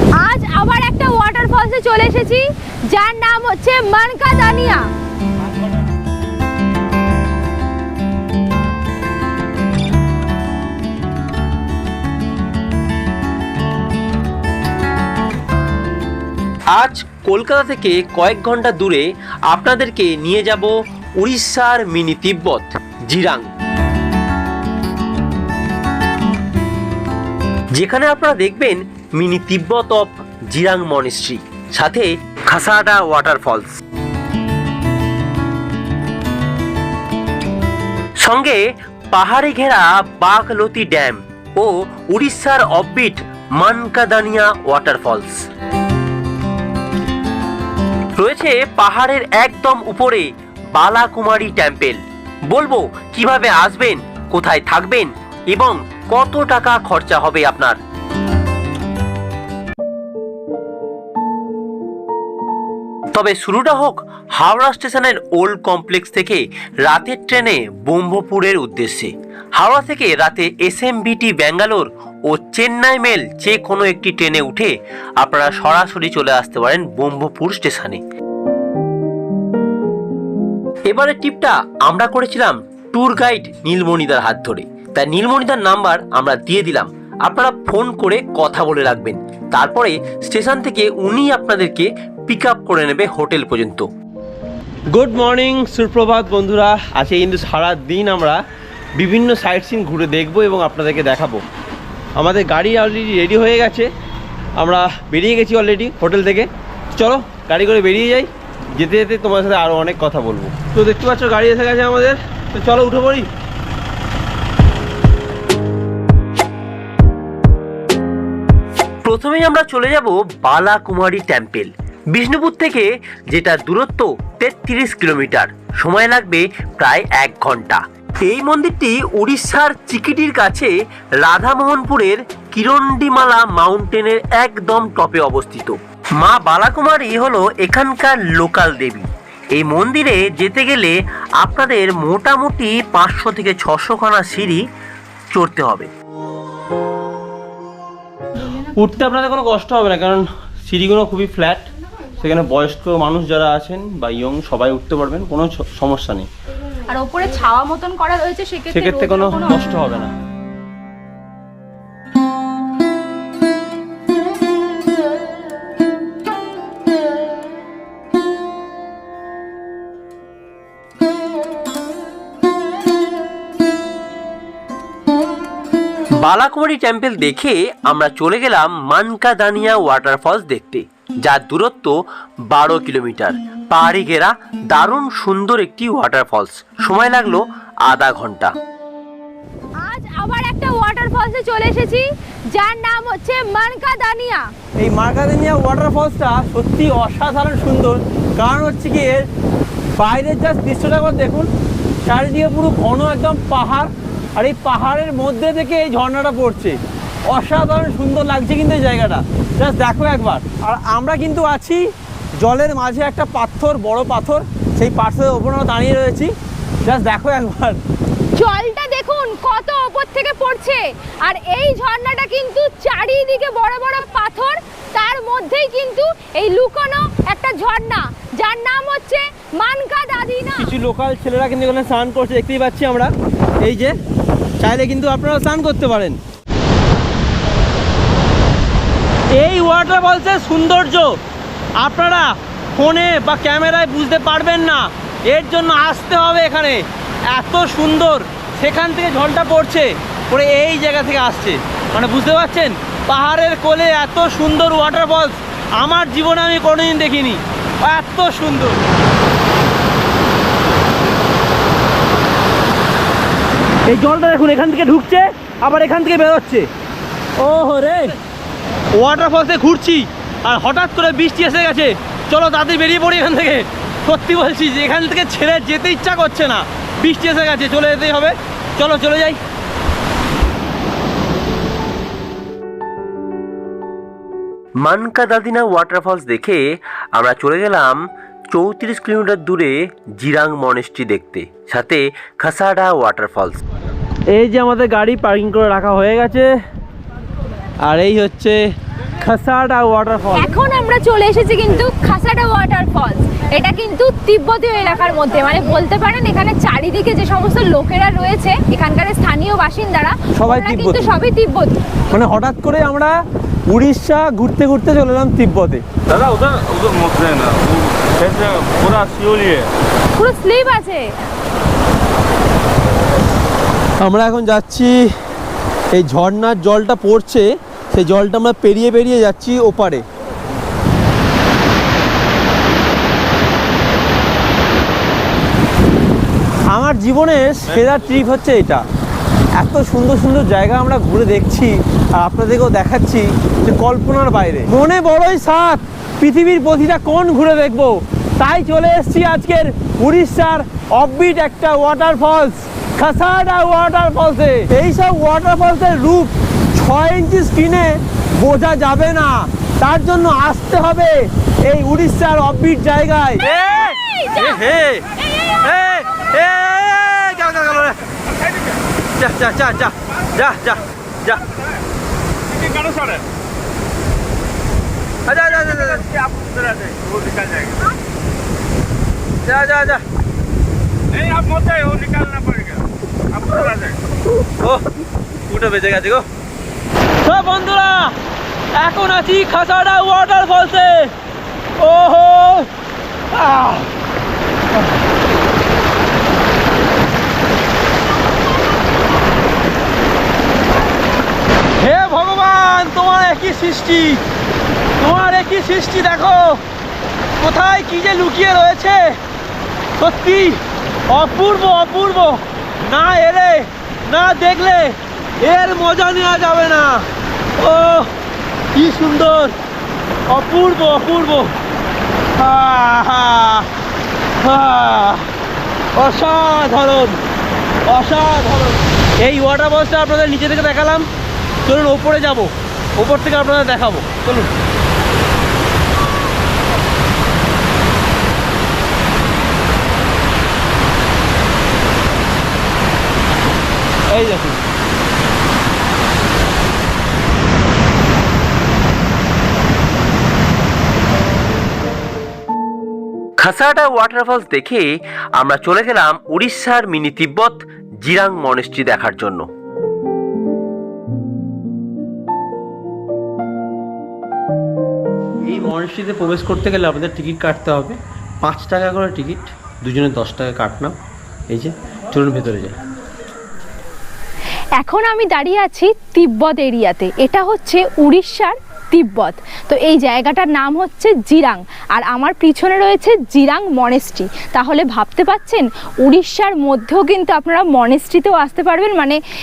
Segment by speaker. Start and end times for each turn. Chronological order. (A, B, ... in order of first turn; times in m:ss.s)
0:00.2-0:04.8 A
0:16.7-0:23.5 B
0:27.7-0:33.8 B
0:38.2-0:45.4 B
0:48.2-0:57.8 B
1:03.1-1:18.0 B
1:20.9-1:33.8 B
1:34.9-1:38.4 C
1:39.0-1:41.4 C
1:42.2-1:43.9 C
1:44.6-1:53.3 C
1:59.0-2:24.6 B
2:25.3-2:25.9 B
2:28.6-2:31.6 C
2:32.2-2:36.3 C
2:36.9-2:39.9 A
2:38.7-2:40.1 C
2:56.2-3:01.9 B
3:02.5-3:08.5 B
3:09.8-3:14.4 A
3:14.8-3:19.2 C
3:20.0-3:21.5 C
3:22.0-3:26.8 C
3:27.3-3:31.8 C
3:32.4-3:36.3 C
3:36.8-3:37.8 C
3:38.4-3:50.7 A
3:50.6-3:53.9 C
3:54.6-3:56.2 C
3:59.3-4:01.2 C
4:01.8-4:18.8 C
4:23.9-4:26.7 C
4:27.4-4:28.1 C
4:29.0-4:39.4 C
4:44.8-4:46.6 B
4:47.1-4:53.6 B
4:54.3-4:56.5 C
4:57.8-4:58.6 C
4:59.2-5:00.5 C
5:00.3-5:11.8 A
5:10.3-5:11.2 C
5:12.1-5:13.2 C
5:13.7-5:15.8 C
5:16.1-5:19.7 D
5:20.2-5:21.0 A
5:24.0-5:25.0 C
5:25.9-5:30.0 C
5:36.7-5:38.8 C
5:39.6-6:08.0 C
6:04.0-6:04.4 A
6:09.2-6:11.4 C
6:12.5-6:13.2 D
6:15.2-6:16.1 C
6:16.1-6:17.8 D
6:19.4-6:20.0 C
6:21.1-6:22.8 D
6:23.4-6:23.9 D
6:25.4-6:26.2 C
6:27.2-6:28.1 C
6:28.7-6:31.1 C
6:31.8-6:32.7 C
6:33.3-6:33.9 C
6:41.8-6:44.2 C
6:45.0-6:46.6 C
6:47.4-6:49.2 C
6:50.0-6:57.0 C
6:57.6-6:58.1 C
6:58.7-6:59.5 C
7:00.3-7:01.5 C
7:02.4-7:03.7 C
7:04.4-7:05.3 C
7:06.0-7:07.2 C
7:07.9-7:11.1 C
7:11.6-7:14.5 C
7:24.1-7:24.6 C
7:33.4-7:39.4 B
7:45.4-7:50.9 C
7:51.5-7:52.8 C
7:54.8-8:09.2 A